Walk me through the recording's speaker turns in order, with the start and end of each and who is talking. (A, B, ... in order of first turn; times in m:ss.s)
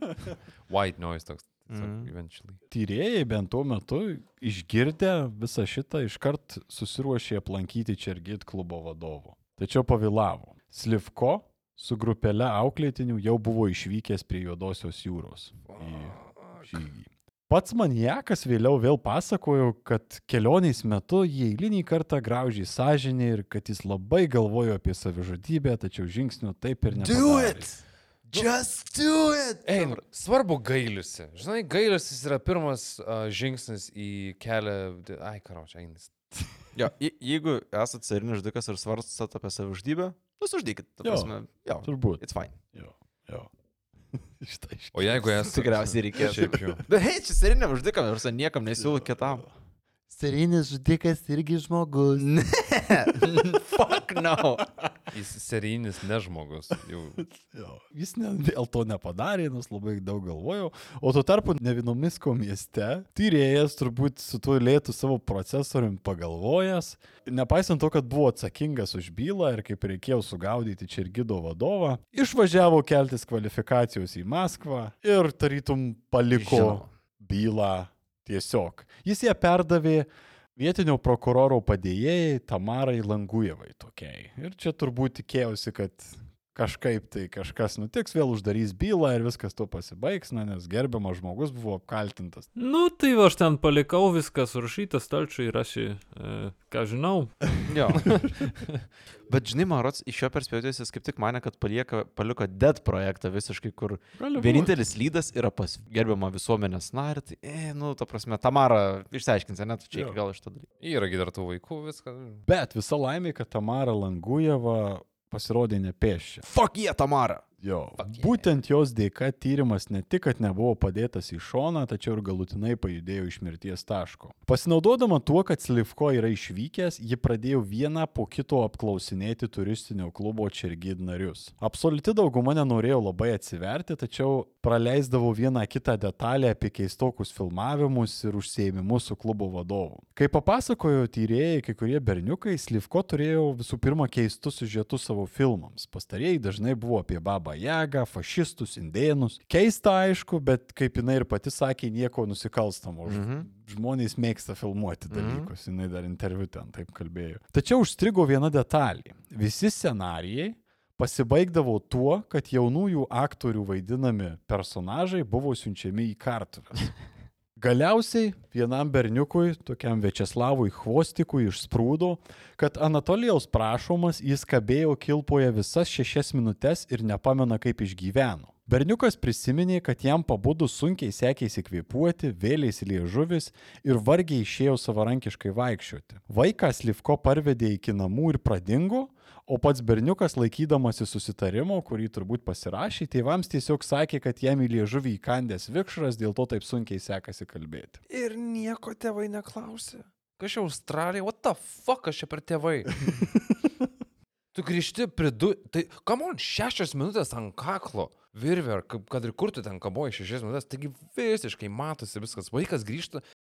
0:00.7-0:02.6 A
0:01.7-0:02.1 B
0:02.7-0:27.8 C
0:15.8-0:16.6 A
0:27.0-0:30.0 B
0:29.7-0:36.1 A
0:36.7-0:42.6 B
0:41.0-0:43.5 C
0:44.1-0:45.5 C
0:44.9-0:46.8 A
0:45.4-0:49.5 B
0:46.2-0:46.6 C
0:48.8-0:49.5 C
0:50.1-0:52.3 C
0:52.2-0:54.7 B
0:53.2-0:53.6 C
0:55.1-0:57.2 A
0:57.3-1:32.5 C
1:16.3-1:16.9 B
1:32.6-1:38.7 D
1:37.7-1:38.0 B
1:39.3-1:50.7 B
1:44.2-1:44.8 C
1:49.9-1:50.2 C
1:50.8-1:52.4 A
1:52.5-1:56.4 C
1:56.4-1:57.4 B
1:57.6-2:46.9 C
1:58.0-1:58.4 A
2:33.1-2:33.5 B
2:35.1-2:35.5 B
2:47.6-3:18.0 C
3:18.1-3:23.1 A
3:24.5-3:33.2 A